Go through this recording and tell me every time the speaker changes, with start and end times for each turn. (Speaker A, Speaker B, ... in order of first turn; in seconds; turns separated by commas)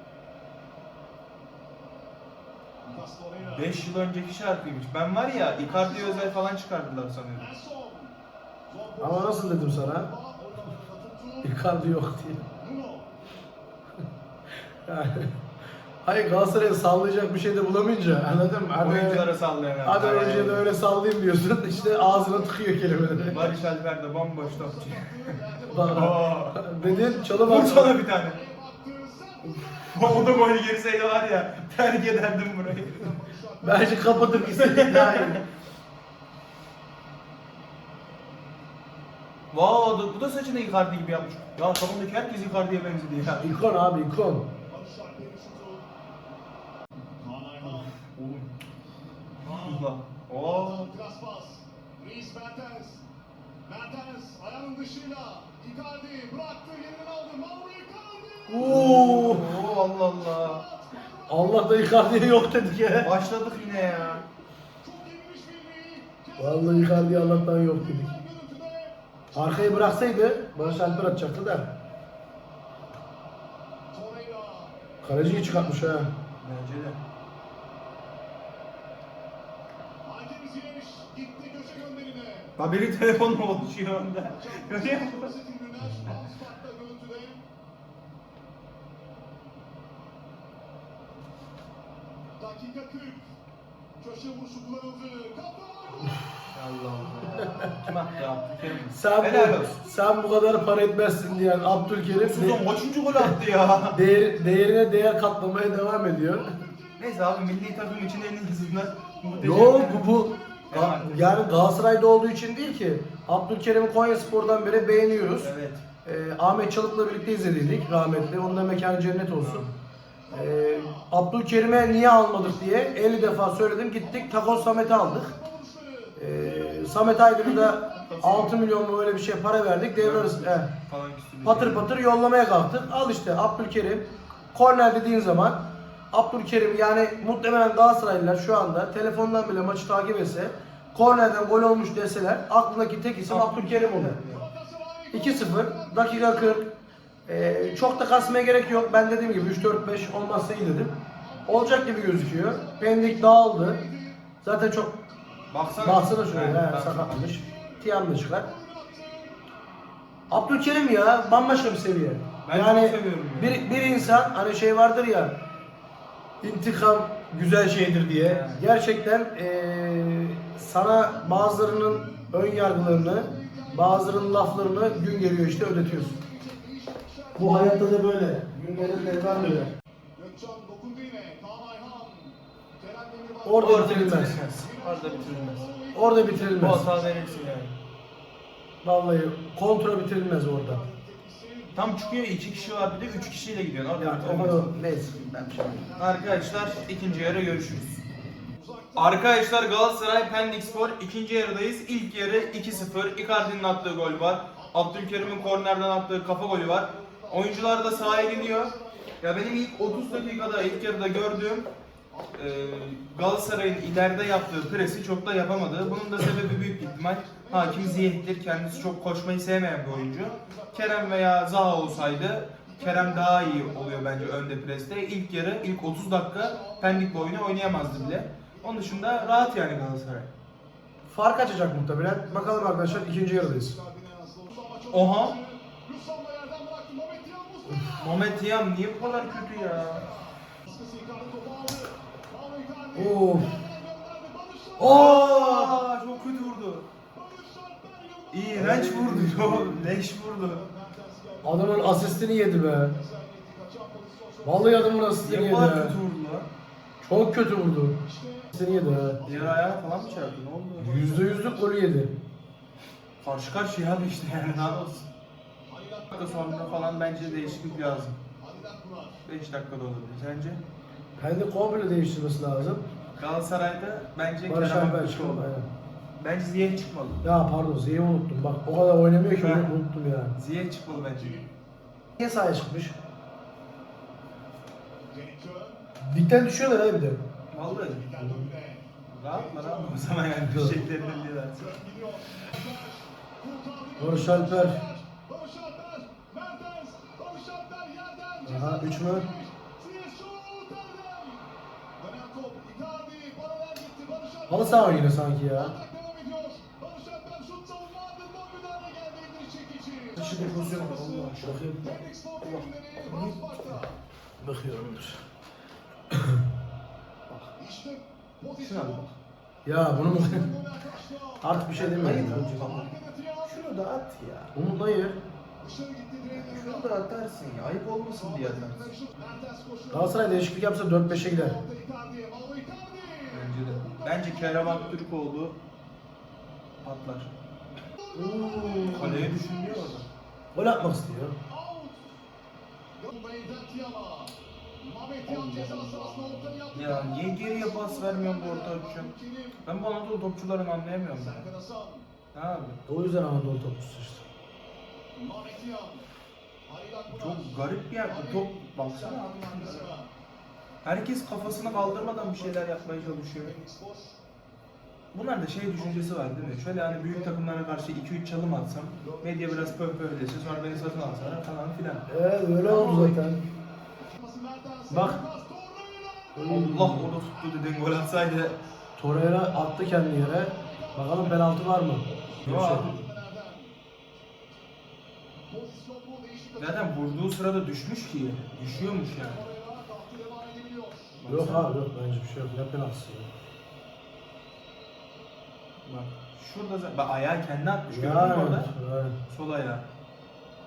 Speaker A: 2.8-3.8, Speaker B: 3.4-7.5, Speaker A: 5.3-6.4, Speaker A: 7.3-8.2, Speaker A: 8.7-11.6, Speaker C: 9.0-10.1, Speaker C: 11.4-12.5, Speaker A: 12.6-13.2, Speaker C: 14.9-15.3, Speaker C: 16.0-19.3, Speaker B: 18.8-20.7, Speaker C: 19.8-23.5, Speaker A: 21.6-23.7, Speaker B: 23.3-26.6, Speaker A: 24.4-30.6, Speaker C: 25.7-27.9, Speaker B: 27.4-28.4, Speaker B: 29.9-33.2, Speaker A: 32.9-34.6, Speaker C: 33.6-35.4, Speaker B: 34.2-35.5, Speaker B: 39.5-43.6, Speaker C: 43.4-44.5, Speaker A: 44.7-45.9, Speaker A: 47.2-48.0, Speaker B: 48.0-48.5, Speaker A: 49.4-49.9, Speaker B: 49.5-50.9, Speaker A: 50.6-53.0, Speaker A: 53.6-59.0, Speaker C: 58.5-59.6, Speaker B: 58.6-60.6, Speaker A: 60.0-62.7, Speaker C: 61.3-63.1, Speaker B: 63.0-64.2, Speaker A: 63.3-64.3, Speaker A: 64.8-71.6, Speaker C: 66.4-68.1, Speaker C: 69.3-71.7, Speaker A: 73.9-76.2, Speaker C: 75.0-76.1, Speaker B: 76.4-77.0, Speaker A: 80.0-82.5, Speaker B: 82.6-85.3, Speaker A: 84.2-87.4, Speaker A: 92.4-93.3, Speaker A: 94.0-96.4, Speaker B: 96.5-99.8, Speaker C: 97.3-97.7, Speaker C: 98.9-102.6, Speaker A: 99.9-103.0, Speaker B: 102.2-104.0, Speaker A: 103.6-104.7, Speaker C: 103.9-106.6, Speaker A: 106.1-111.3, Speaker B: 107.0-110.1, Speaker C: 109.4-115.5, Speaker B: 110.7-111.4, Speaker A: 114.0-115.5, Speaker B: 115.4-115.8, Speaker C: 116.0-119.7, Speaker A: 116.7-119.0, Speaker B: 119.4-119.8, Speaker A: 120.3-121.1, Speaker C: 120.3-125.3, Speaker A: 121.7-128.6, Speaker C: 126.2-130.7, Speaker B: 127.7-128.6, Speaker B: 130.0-131.9, Speaker C: 131.4-144.2, Speaker B: 143.3-144.5, Speaker A: 144.3-146.7, Speaker C: 145.1-146.7, Speaker C: 147.3-150.9, Speaker A: 148.5-149.4, Speaker A: 151.1-154.3, Speaker C: 151.5-153.8, Speaker C: 154.4-155.0, Speaker B: 155.5-157.2, Speaker C: 155.8-158.5, Speaker A: 157.2-159.4, Speaker C: 160.3-165.4, Speaker B: 162.4-164.3, Speaker C: 166.4-176.2, Speaker B: 168.2-168.7, Speaker A: 171.1-177.9, Speaker C: 177.4-179.7, Speaker A: 178.6-187.6, Speaker C: 183.4-184.4, Speaker B: 183.6-185.7, Speaker C: 185.9-186.9, Speaker B: 186.5-187.8, Speaker C: 188.8-190.8, Speaker A: 190.6-193.6, Speaker B: 191.8-194.7, Speaker C: 194.0-195.9, Speaker A: 194.4-197.3, Speaker B: 196.0-198.0, Speaker A: 198.6-199.5, Speaker B: 199.0-211.7, Speaker A: 200.1-201.0, Speaker A: 202.2-205.8, Speaker A: 206.4-219.0, Speaker B: 212.3-230.3, Speaker A: 219.9-224.4, Speaker A: 226.3-229.7, Speaker C: 231.1-233.8, Speaker A: 232.1-248.7, Speaker B: 234.9-235.4, Speaker B: 238.0-240.1, Speaker C: 242.9-243.6, Speaker C: 244.8-245.8, Speaker B: 244.8-246.9, Speaker B: 248.3-250.6, Speaker C: 248.5-249.8, Speaker A: 250.4-255.1, Speaker C: 251.4-252.9, Speaker C: 254.4-256.0, Speaker B: 255.2-256.5, Speaker C: 257.0-258.0, Speaker A: 257.9-261.7, Speaker C: 258.5-259.2, Speaker B: 259.2-261.2, Speaker C: 260.8-262.1, Speaker B: 263.2-265.1, Speaker A: 265.7-269.2, Speaker B: 266.1-268.2, Speaker B: 269.3-270.6, Speaker C: 271.2-272.8, Speaker B: 273.2-275.5, Speaker C: 274.5-275.7, Speaker B: 276.2-277.3, Speaker C: 277.2-280.4, Speaker B: 279.4-279.8, Speaker B: 280.3-281.4, Speaker A: 280.9-281.6, Speaker C: 282.2-283.0, Speaker A: 285.1-285.8, Speaker C: 286.0-287.2, Speaker B: 287.5-288.1, Speaker A: 287.7-314.0, Speaker C: 288.2-288.5, Speaker B: 289.1-291.8, Speaker C: 290.4-290.8, Speaker C: 294.0-294.8, Speaker C: 298.5-299.3, Speaker C: 304.5-305.8, Speaker B: 310.2-311.8, Speaker C: 311.4-311.8, Speaker B: 312.4-313.7, Speaker C: 314.4-315.2, Speaker C: 316.1-316.4, Speaker A: 317.6-319.1, Speaker B: 318.6-319.1, Speaker C: 319.6-320.5, Speaker A: 319.9-323.7, Speaker C: 321.4-322.6, Speaker B: 321.7-322.9, Speaker B: 323.4-324.5, Speaker C: 324.5-325.2, Speaker A: 325.6-327.0, Speaker B: 326.3-328.9, Speaker A: 328.1-335.0, Speaker C: 329.9-331.6, Speaker B: 333.3-335.6, Speaker B: 336.8-337.4, Speaker A: 338.0-340.1, Speaker C: 338.1-339.3, Speaker B: 338.9-340.1, Speaker C: 340.5-341.4, Speaker A: 341.5-342.1, Speaker A: 343.0-349.7, Speaker C: 345.3-346.3, Speaker B: 345.4-349.1, Speaker B: 349.6-351.5, Speaker A: 351.1-352.1, Speaker B: 352.3-352.8, Speaker C: 352.9-354.2, Speaker A: 355.1-356.1, Speaker A: 356.7-360.1, Speaker B: 357.1-359.9, Speaker B: 360.8-363.6, Speaker A: 361.4-364.2, Speaker B: 365.1-372.1, Speaker A: 365.8-367.4, Speaker A: 369.0-371.4, Speaker C: 372.1-373.4, Speaker B: 372.6-373.4, Speaker A: 374.1-378.7, Speaker C: 374.9-375.2, Speaker C: 376.4-377.2, Speaker B: 376.5-378.6, Speaker C: 379.0-382.9, Speaker A: 379.9-381.5, Speaker A: 382.0-383.7, Speaker B: 382.4-383.0, Speaker A: 385.5-387.2, Speaker B: 386.6-389.4, Speaker A: 388.4-391.2, Speaker B: 391.2-391.7, Speaker C: 391.3-393.3, Speaker B: 395.9-398.7, Speaker C: 397.9-399.2, Speaker B: 399.3-399.9